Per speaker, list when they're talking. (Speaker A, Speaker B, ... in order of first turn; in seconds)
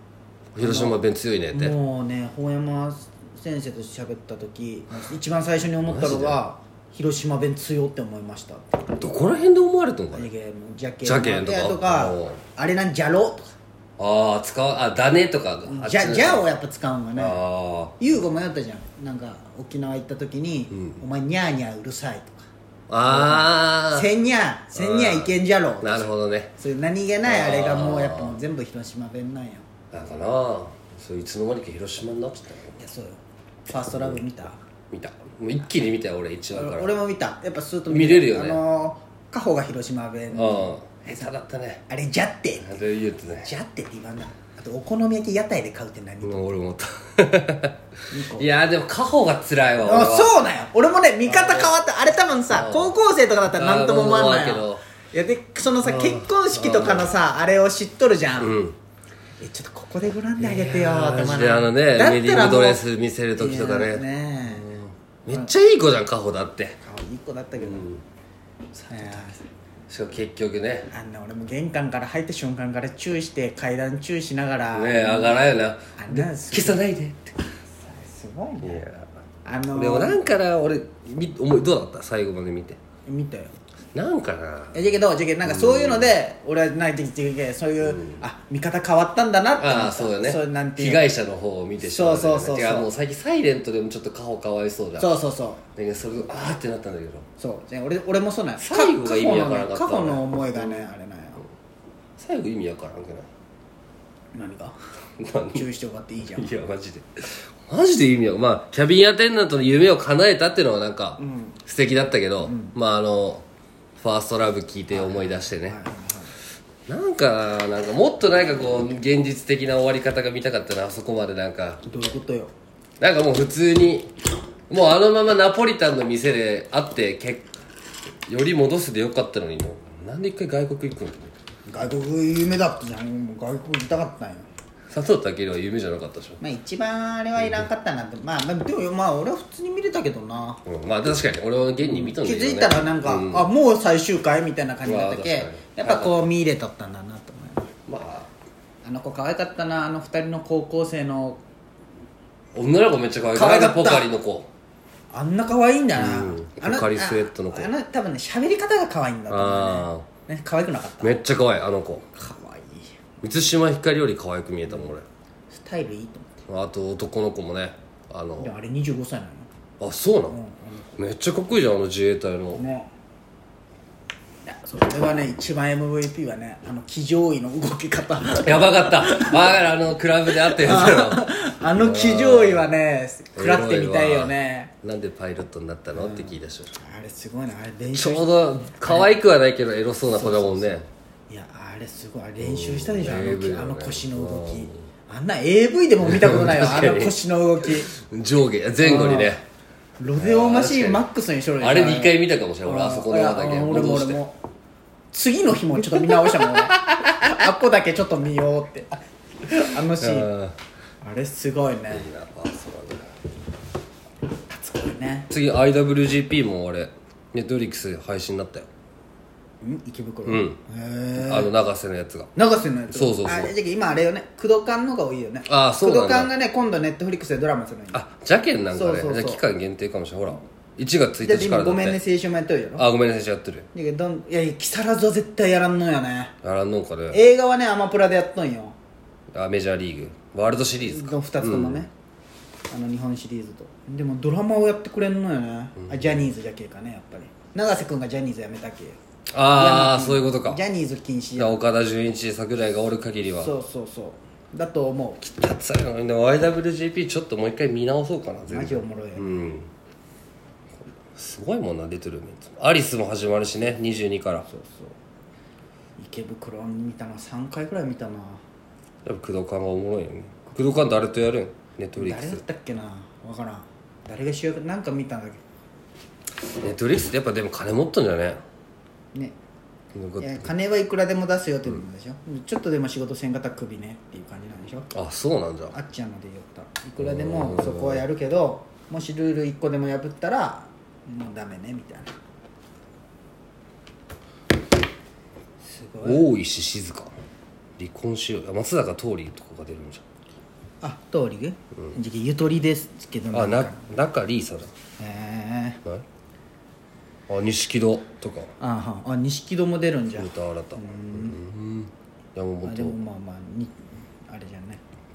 Speaker A: 0.6-1.8, 5.8-6.4, 9.0-10.3, 11.0-12.4, 14.0-16.5, 17.2-17.9, 20.7-21.0, 22.9-24.1, 24.7-26.5, 27.2-28.4, 29.9-32.8, 33.9-34.2, 34.9-36.9, 37.9-38.6, 40.3-41.9, 42.6-43.5, 46.2-50.3, 51.3-51.7, 52.5-53.0, 53.5-54.8, 55.8-57.1, 58.4-58.8, 60.4-66.8, 67.6-68.0, 69.9-70.9, 74.7-77.4, 78.6-79.1, 79.7-82.8, 83.9-84.9, 85.5-86.1, 87.8-88.2, 89.6-95.2, 95.8-97.3, 98.6-100.9, 102.2-103.3, 105.2-105.6, 106.4-113.4, 114.0-115.8, 116.9-121.8, 123.0-124.1, 124.7-127.5, 128.3-131.3, 134.9-136.4, 137.4-137.7, 140.7-143.5, 144.8-146.2, 147.9-148.3, 152.5-154.5, 155.9-157.7, 159.3-160.1, 161.0-162.1, 163.2-165.1, 166.5-168.5, 169.8-170.4, 171.0-172.7, 178.3-182.8, 183.3-186.8, 187.9-190.9, 192.4-194.9, 196.0-199.4, 200.2-201.0, 201.6-204.2, 206.1-207.1, 210.0-210.6, 211.9-213.1, 215.3-218.7, 220.2-220.6, 221.2-222.3, 222.9-223.5, 225.5-226.3, 227.9-232.0, 232.8-233.7, 236.4-237.2, 239.3-241.9, 245.8-246.3, 249.3-250.6, 251.4-253.5, 255.2-259.7, 261.1-264.5, 269.1-272.4, 276.6-278.4, 279.9-280.5, 284.9-285.8, 287.0-288.1, 296.0-297.1, 297.8-300.0, 303.3-304.7, 307.3-308.5, 310.1-313.0
Speaker B: 0.6-1.0, 1.5-9.0, 10.1-13.6, 15.7-17.4, 18.0-22.5, 23.1-29.7, 32.8-34.6, 36.5-41.3, 41.9-42.7, 43.5-46.6, 48.1-48.5, 49.8-58.6, 59.4-62.8, 63.4-64.7, 66.8-67.9, 68.7-69.4, 70.9-75.5, 76.0-76.9, 77.8-78.9, 79.5-80.3, 83.1-83.6, 84.7-91.0, 91.8-92.9, 95.0-95.6, 97.4-101.4, 104.3-104.8, 105.5-106.6, 111.2-111.6, 112.5-112.7, 114.9-116.3, 121.8-122.5, 131.7-134.5, 136.4-140.6, 141.8-147.7, 148.8-151.4, 153.3-154.1, 155.1-161.2, 162.2-162.9, 165.5-166.4, 168.4-169.5, 170.3-171.0, 172.6-172.9, 174.4-179.6, 180.4-184.7, 185.9-189.2, 190.1-190.8, 191.3-197.9, 198.8-199.3, 200.0-204.4, 205.1-210.3, 211.0-212.1, 214.5-215.3, 219.6-221.5, 222.4-228.0, 228.7-229.4, 231.2-232.9, 233.7-236.3, 237.1-238.8, 240.6-241.9, 242.7-251.6, 253.4-255.2, 258.5-259.3, 264.5-265.0, 266.0-268.4, 272.0-275.4, 280.2-284.9, 285.7-292.1, 295.6-296.3, 300.8-303.9, 305.0-305.8, 308.6-311.4, 312.6-314.8